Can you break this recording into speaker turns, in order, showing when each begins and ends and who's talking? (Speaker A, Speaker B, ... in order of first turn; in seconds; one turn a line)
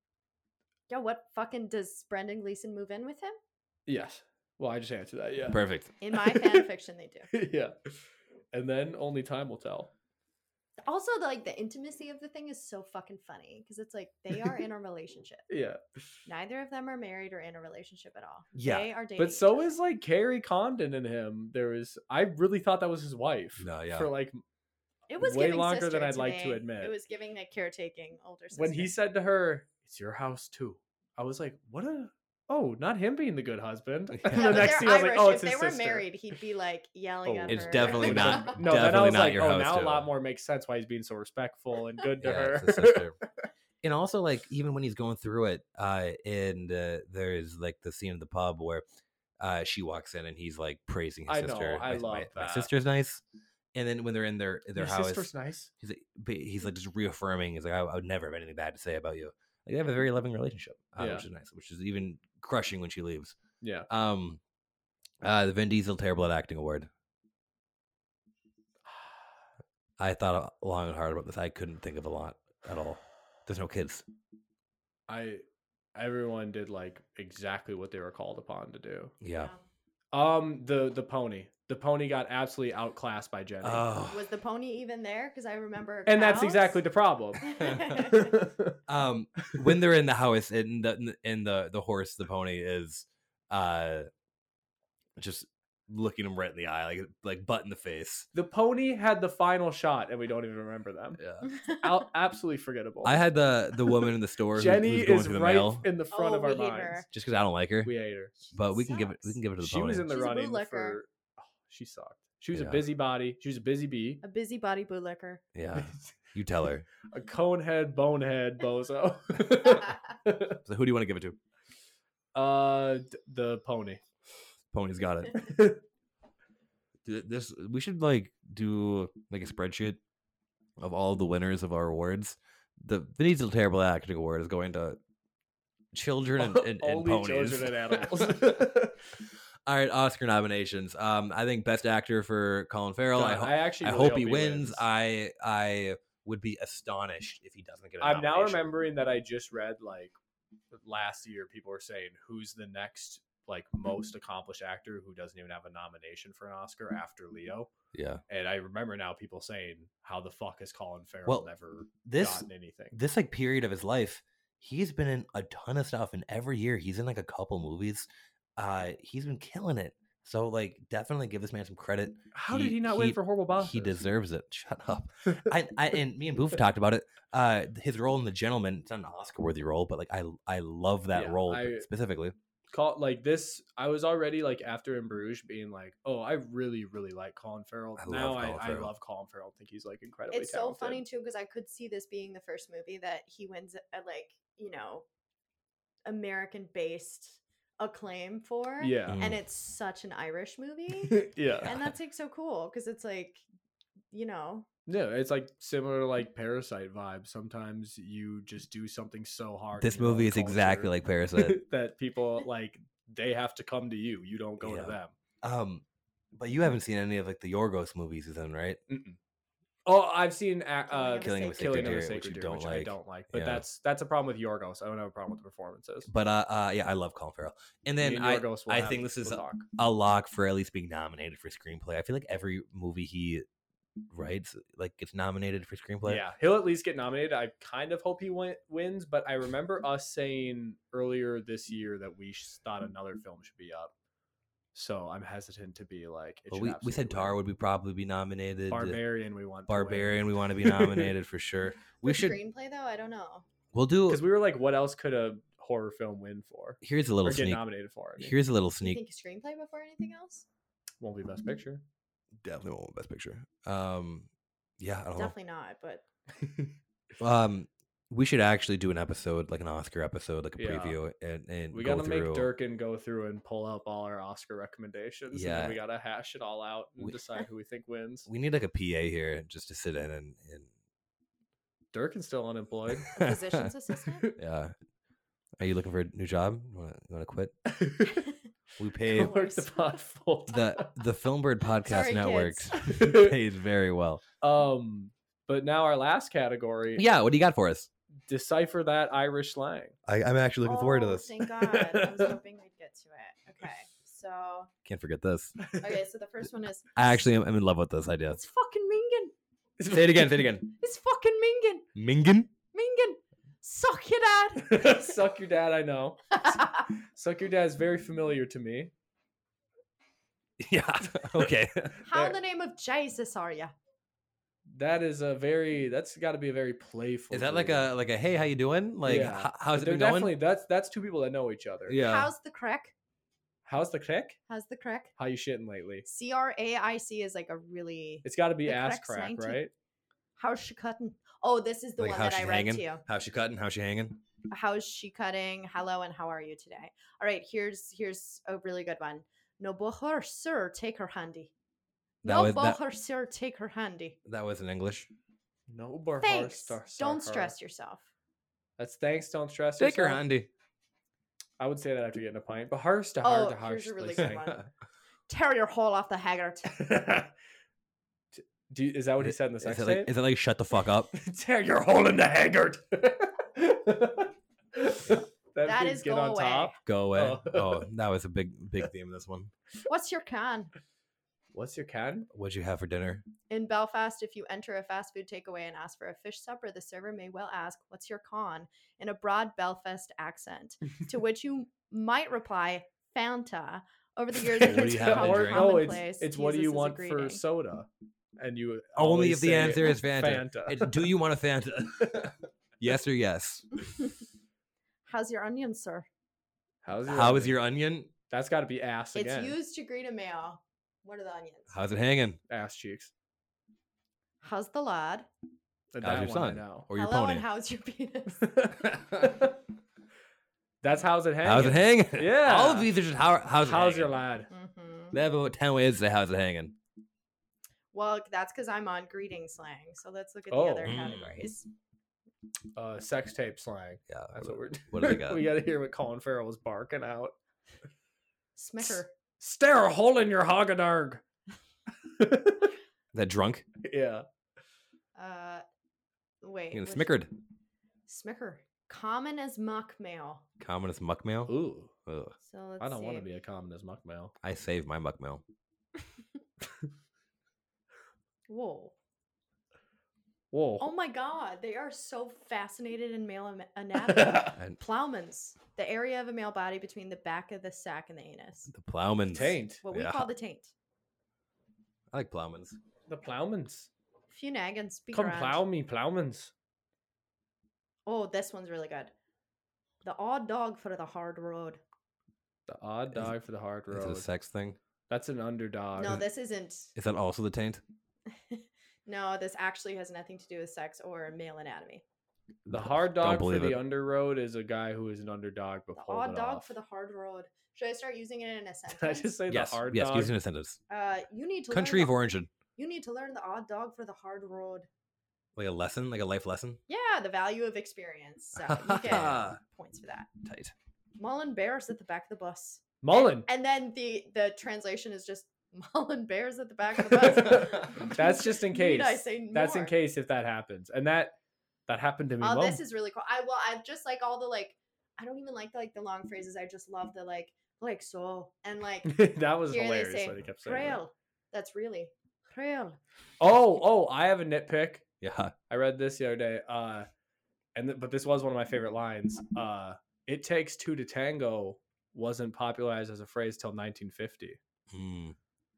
Speaker A: 0.9-3.4
Speaker B: 3.9-5.6
Speaker C: 5.5-5.9
Speaker A: 6.0-7.3
Speaker B: 6.1-6.7
Speaker B: 7.3-7.9
Speaker B: 8.5-9.9
Speaker A: 10.8-15.4
Speaker B: 15.5-15.8
Speaker A: 16.3-19.7
Speaker C: 18.6-18.9
Speaker B: 19.2-24.4
Speaker C: 23.6-24.1
Speaker A: 25.1-28.9
Speaker B: 25.2-26.9
Speaker B: 28.6-36.1
Speaker C: 34.1-34.8
Speaker A: 34.3-38.6
Speaker B: 37.2-43.3
Speaker C: 37.5-40.1
Speaker C: 42.2-43.2
Speaker C: 43.8-48.8
Speaker C: 49.4-53.2
Speaker B: 51.3-52.7
Speaker C: 53.7-63.4
Speaker B: 54.8-55.7
Speaker B: 61.0-61.3
Speaker B: 63.6-63.9
Speaker C: 63.9-64.4
Speaker C: 65.2-66.9
Speaker B: 68.9-69.2
Speaker C: 70.0-74.0
Speaker B: 75.1-75.4
Speaker B: 76.0-79.1
Speaker C: 79.2-79.5
Speaker A: 79.3-79.6
Speaker B: 80.1-83.9
Speaker C: 83.6-84.3
Speaker A: 84.1-86.8
Speaker B: 86.1-88.8
Speaker A: 87.4-88.3
Speaker C: 88.9-94.1
Speaker C: 95.2-98.3
Speaker B: 98.3-101.2
Speaker C: 101.2-101.5
Speaker A: 101.5-101.8
Speaker B: 101.8-103.2
Speaker C: 103.0-105.9
Speaker B: 104.6-107.1
Speaker A: 106.1-107.0
Speaker C: 107.1-107.9
Speaker B: 107.8-108.3
Speaker A: 108.4-109.4
Speaker C: 108.5-110.1
Speaker B: 109.6-114.2
Speaker A: 110.1-111.0
Speaker C: 112.5-112.9
Speaker A: 114.2-115.4
Speaker C: 115.5-116.9
Speaker B: 115.8-116.1
Speaker B: 117.1-120.6
Speaker C: 120.7-121.4
Speaker B: 122.3-124.0
Speaker C: 124.7-125.4
Speaker B: 125.3-125.8
Speaker C: 127.0-130.0
Speaker C: 130.8-135.0
Speaker C: 135.9-138.7
Speaker B: 136.4-139.0
Speaker C: 139.7-148.7
Speaker B: 143.1-144.8
Speaker B: 148.0-150.2
Speaker B: 150.7-157.7
Speaker C: 157.9-158.2
Speaker B: 158.3-163.0
Speaker C: 162.0-182.4
Speaker B: 172.3-174.1
Speaker B: 181.1-181.9
Speaker B: 182.7-191.0
Speaker C: 188.0-188.9
Speaker A: 190.3-195.1
Speaker A: 196.1-203.4
Speaker B: 198.8-199.2
Speaker C: 199.1-199.4
Speaker B: 201.0-201.7
Speaker A: 204.1-204.7
Speaker B: 204.9-215.1
Speaker C: 209.8-211.6
Speaker C: 214.6-218.8
Speaker B: 218.9-219.2
Speaker B: 219.9-226.1
Speaker A: 220.9-222.1
Speaker C: 221.2-223.7
Speaker C: 226.1-233.4
Speaker B: 228.0-229.7
Speaker C: 234.1-236.2
Speaker B: 236.0-243.9
Speaker B: 244.7-247.4
Speaker C: 246.5-249.0
Speaker B: 248.7-251.1
Speaker C: 249.7-252.4
Speaker A: 252.0-253.5
Speaker C: 253.7-254.2
Speaker B: 254.1-258.4
Speaker C: 256.8-257.6
Speaker C: 258.2-259.0
Speaker A: 258.8-260.5
Speaker B: 261.0-261.8
Speaker C: 262.4-265.3
Speaker A: 265.1-266.1
Speaker B: 266.4-266.7
Speaker C: 267.2-272.5
Speaker B: 270.6-271.0
Speaker B: 271.7-278.3
Speaker C: 275.3-275.8
Speaker C: 278.3-280.7
Speaker B: 281.9-283.1
Speaker A: 283.1-284.3
Speaker C: 283.2-283.7
Speaker C: 284.4-284.7
Speaker C: 285.6-287.6
Speaker B: 287.7-288.3
Speaker C: 288.8-289.3
Speaker B: 289.1-290.6
Speaker A: 289.2-289.7
Speaker C: 290.5-294.2
Speaker A: 291.9-292.8
Speaker B: 292.8-293.4
Speaker B: 294.4-297.1
Speaker C: 297.0-297.9
Speaker B: 298.3-300.0
Speaker C: 300.1-301.4
Speaker A: 300.6-304.7
Speaker B: 301.6-302.4
Speaker C: 304.9-305.6
Speaker A: 305.8-307.1
Speaker C: 307.0-308.4
Speaker A: 308.3-309.3
Speaker B: 309.8-310.5
Speaker C: 309.9-310.7
Speaker A: 310.8-311.9
Speaker C: 311.9-312.5
Speaker A: 312.7-315.0
Speaker B: 314.7-318.9
Speaker A: 316.4-316.9
Speaker C: 320.6-322.0
Speaker A: 322.1-323.7
Speaker B: 324.7-327.9
Speaker C: 327.3-330.4
Speaker B: 329.0-332.0
Speaker C: 331.9-332.3
Speaker A: 332.0-332.9
Speaker B: 333.6-334.4
Speaker A: 334.5-335.1
Speaker B: 335.2-336.1
Speaker A: 336.1-339.6
Speaker B: 338.2-339.7
Speaker A: 340.4-343.0
Speaker C: 342.0-344.2
Speaker A: 344.5-351.5
Speaker C: 352.2-352.8
Speaker A: 352.2-354.2
Speaker C: 354.3-355.1
Speaker B: 355.7-357.6
Speaker A: 356.2-358.1
Speaker B: 358.8-360.2
Speaker C: 359.8-360.5
Speaker B: 361.6-364.5
Speaker A: 363.2-364.6
Speaker C: 364.2-364.6
Speaker A: 365.3-366.9
Speaker B: 366.7-367.3
Speaker B: 368.3-370.1
Speaker C: 369.2-371.1
Speaker B: 371.1-377.9
Speaker A: 375.6-376.7
Speaker C: 376.9-379.5
Speaker A: 379.9-380.7
Speaker B: 381.5-382.3
Speaker C: 382.3-383.2
Speaker A: 383.5-397.4
Speaker C: 394.6-395.9
Speaker B: 394.6-401.1
Speaker C: 399.0-403.7
Speaker A: 405.1-406.1
Speaker B: 406.8-407.6
Speaker C: 407.1-408.1
Speaker B: 408.3-409.6
Speaker A: 409.1-411.7
Speaker C: 411.7-412.4
Speaker B: 412.5-413.1
Speaker A: 414.4-415.3
Speaker B: 415.9-416.9
Speaker C: 416.0-417.4
Speaker A: 416.9-418.5
Speaker B: 418.4-419.6
Speaker C: 418.8-419.4
Speaker B: 420.8-422.9
Speaker C: 421.4-424.1
Speaker B: 423.6-424.5
Speaker A: 424.5-425.1
Speaker C: 425.1-426.8
Speaker A: 427.9-431.7
Speaker B: 430.5-431.0
Speaker C: 430.8-431.5
Speaker B: 432.8-437.3
Speaker C: 434.1-435.5
Speaker A: 438.6-439.1
Speaker B: 439.4-441.2
Speaker B: 442.2-442.7
Speaker C: 443.1-443.6
Speaker B: 443.8-444.2
Speaker A: 445.1-445.6
Speaker A: 446.4-447.2
Speaker C: 446.7-447.3
Speaker A: 448.1-450.4
Speaker C: 450.6-452.4
Speaker B: 451.5-451.9
Speaker A: 452.5-453.3
Speaker B: 452.8-454.3
Speaker C: 454.4-455.4
Speaker A: 458.5-458.9
Speaker B: 460.5-460.9
Speaker A: 460.8-468.7
Speaker B: 464.1-464.5
Speaker C: 468.7-470.3
Speaker B: 469.3-469.9
Speaker A: 469.8-470.7
Speaker C: 472.1-472.8
Speaker B: 473.1-473.9
Speaker A: 474.3-475.6
Speaker B: 475.1-476.5
Speaker A: 478.1-479.1
Speaker A: 480.0-481.8
Speaker B: 482.7-484.3
Speaker C: 483.9-484.8
Speaker B: 485.1-486.2
Speaker A: 486.0-486.9
Speaker C: 486.9-487.8
Speaker A: 488.5-492.0
Speaker C: 492.7-493.8
Speaker B: 492.7-496.7
Speaker A: 495.9-499.3
Speaker B: 498.9-500.4
Speaker C: 499.5-500.8
Speaker A: 500.9-502.2
Speaker C: 501.7-502.5
Speaker A: 502.8-504.9
Speaker C: 505.6-506.8
Speaker A: 506.9-510.3
Speaker C: 508.6-509.6
Speaker C: 510.4-510.7
Speaker A: 511.2-519.9
Speaker B: 513.0-513.5
Speaker B: 517.2-521.4
Speaker C: 517.5-518.1
Speaker B: 521.9-522.8
Speaker A: 522.4-533.0
Speaker B: 529.1-531.0
Speaker B: 533.4-535.0
Speaker C: 535.2-535.5
Speaker B: 535.7-537.1
Speaker B: 537.8-544.6
Speaker C: 544.9-545.4